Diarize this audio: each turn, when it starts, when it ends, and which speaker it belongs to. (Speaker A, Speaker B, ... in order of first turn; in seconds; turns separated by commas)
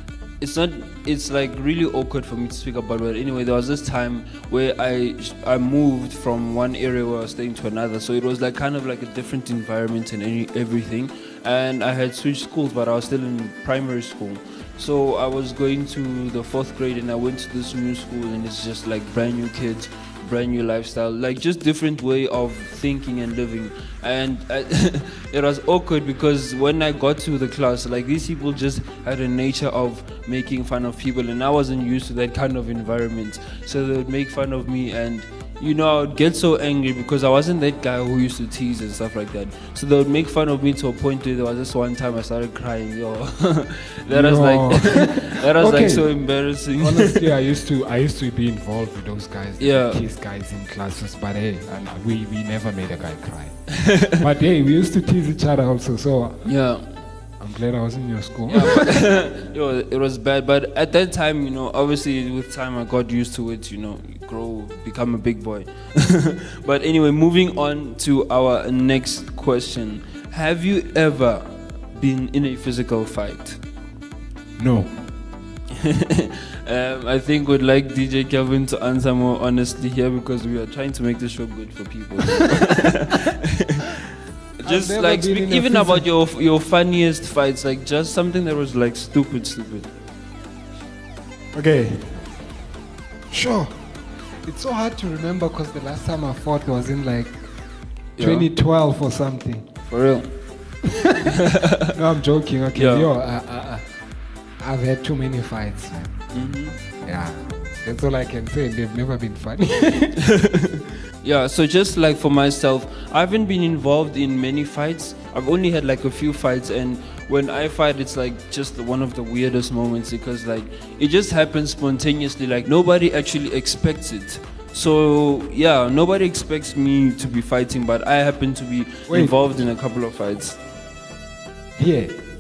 Speaker A: 0.4-47.2, Speaker B: 44.1-46.1, Speaker B: 46.8-56.5, Speaker A: 49.6-50.0, Speaker A: 53.9-54.2, Speaker A: 56.4-56.9, Speaker B: 57.4-59.1, Speaker A: 58.5-73.6, Speaker B: 74.6-74.9, Speaker A: 75.7-83.9, Speaker B: 82.5-82.9, Speaker A: 84.6-89.9, Speaker B: 84.6-86.1, Speaker B: 91.5-92.3, Speaker B: 93.3-97.4, Speaker A: 98.2-98.5, Speaker B: 98.2-99.8, Speaker A: 99.9-100.3, Speaker B: 100.8-101.3, Speaker B: 101.9-103.9, Speaker A: 102.7-103.1, Speaker B: 104.6-106.2, Speaker A: 106.3-106.8, Speaker B: 107.0-110.3, Speaker A: 111.2-130.6, Speaker B: 129.1-129.6, Speaker B: 131.8-132.2